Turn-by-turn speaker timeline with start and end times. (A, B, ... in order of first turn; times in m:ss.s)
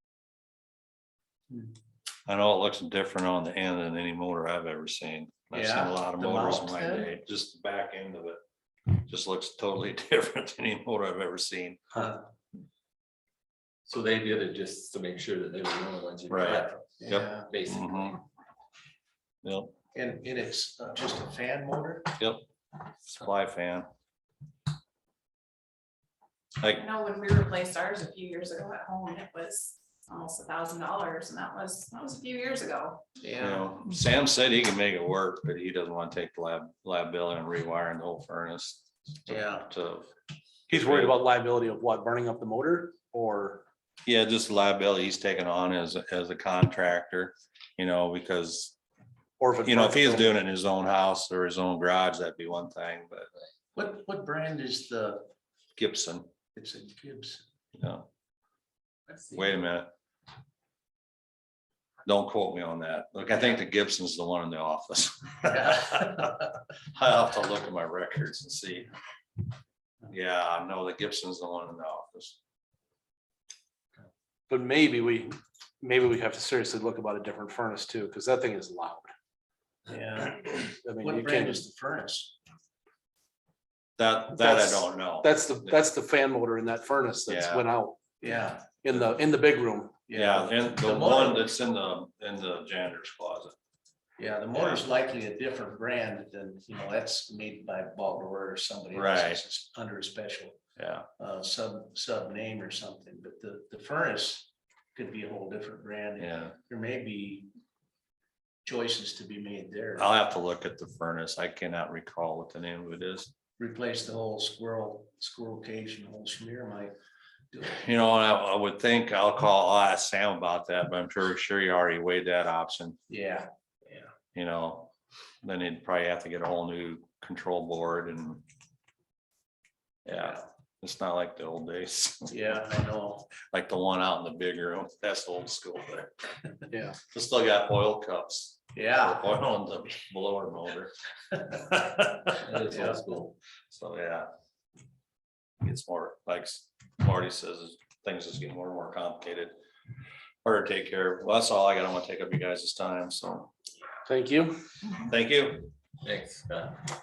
0:02.3-0:11.8 A
0:05.5-0:07.1 B
0:12.0-0:12.2 B
0:13.9-0:16.8 C
0:16.3-0:18.2 A
0:16.9-0:17.5 B
0:17.5-0:18.0 C
0:19.4-0:19.7 A
0:19.9-0:22.2 B
0:23.1-0:23.9 A
0:26.7-0:33.0 D
0:33.2-0:33.7 B
0:33.4-0:40.1 A
0:39.3-0:39.7 B
0:40.7-0:43.7 E
0:40.7-0:41.2 A
0:44.0-0:48.8 A
0:49.4-0:50.3 E
0:49.6-0:53.3 A
0:53.8-0:55.3 B
0:55.8-0:56.3 A
0:56.5-0:57.4 B
0:57.8-0:58.1 A
0:59.3-0:59.9 A
1:02.0-1:06.4 A
1:06.9-1:08.9 A
1:10.1-1:12.4 A
1:14.5-1:19.1 E
1:19.9-1:22.3 B
1:20.7-1:21.6 E
1:24.0-1:25.8 A
1:24.3-1:28.0 E
1:27.3-1:27.6 A
1:28.2-1:28.7 B
1:28.8-1:30.0 E
1:30.1-1:31.5 B
1:30.1-1:33.6 A
1:34.2-1:40.6 B
1:34.6-1:34.8 A
1:38.9-1:39.4 A
1:40.8-1:41.1 A
1:41.2-1:47.5 B
1:46.2-1:46.6 A
1:48.6-1:50.1 B
1:50.0-1:53.3 A
1:53.6-1:56.9 B
1:57.5-1:57.8 B
1:57.8-2:03.0 A
2:03.1-2:04.1 B
2:04.3-2:08.4 A
2:10.0-2:12.5 A
2:12.3-2:13.3 B
2:13.5-2:16.1 A
2:16.7-2:17.0 E
2:17.1-2:20.9 A
2:18.8-2:19.3 B
2:21.5-2:22.3 A
2:22.4-2:23.4 C
2:23.7-2:24.3 A
2:25.6-2:29.6 A
2:30.4-2:33.5 A
2:34.1-2:34.6 E
2:35.0-2:35.7 A
2:36.0-2:36.8 C